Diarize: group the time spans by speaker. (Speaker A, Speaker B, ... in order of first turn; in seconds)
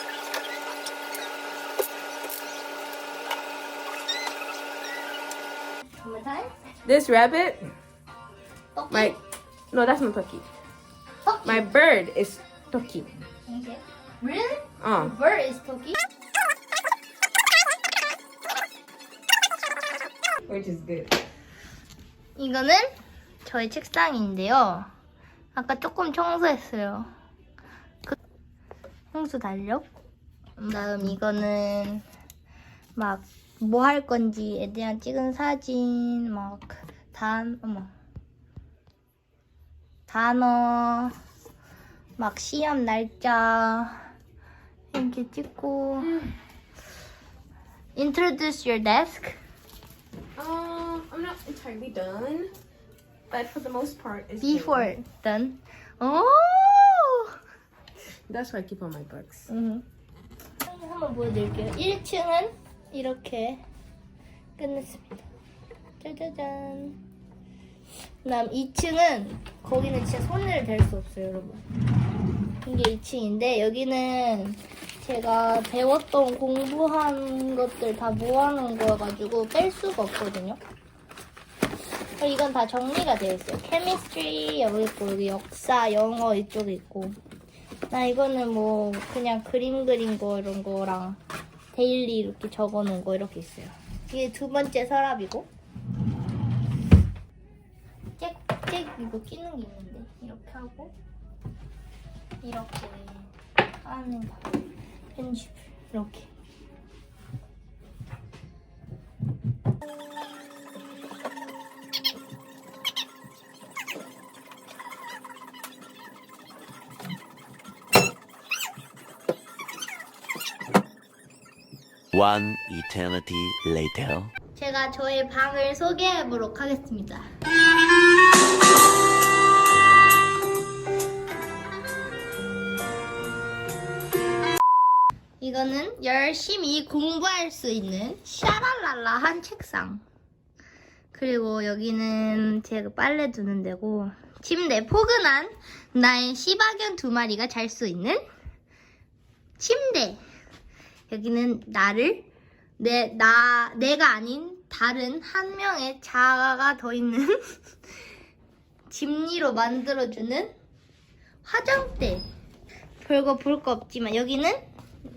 Speaker A: 6.0-6.5, 8.7-9.2, 11.2-11.6, 12.7-16.0, 22.4-22.9, 23.4-24.9, 25.5-27.1, 29.1-29.9, 30.6-32.0, 33.0-37.9, 40.1-41.1, 42.2-44.0, 44.9-46.1, 48.0-49.4, 54.4-57.3, 59.5-59.8, 60.6-63.6, 64.6-65.2, 66.0-67.0, 68.2-71.6, 72.6-80.6, 82.2-87.2, 87.9-91.2, 91.7-95.5, 98.2-100.9, 102.4-103.3, 103.8-104.4, 105.2-106.3, 124.5-127.2, 135.4-140.0, 141.1-148.2, 149.6-150.2, 151.1-152.2, 152.8-157.6, 158.9-160.5, 161.4-162.2, 163.0-164.6
Speaker B: 6.8-7.6, 8.9-9.2, 9.7-10.4, 11.4-12.4, 14.8-15.1, 20.5-21.1, 46.0-46.3, 50.4-52.5, 53.3-54.9, 58.3-59.5
Speaker C: 122.1-124.3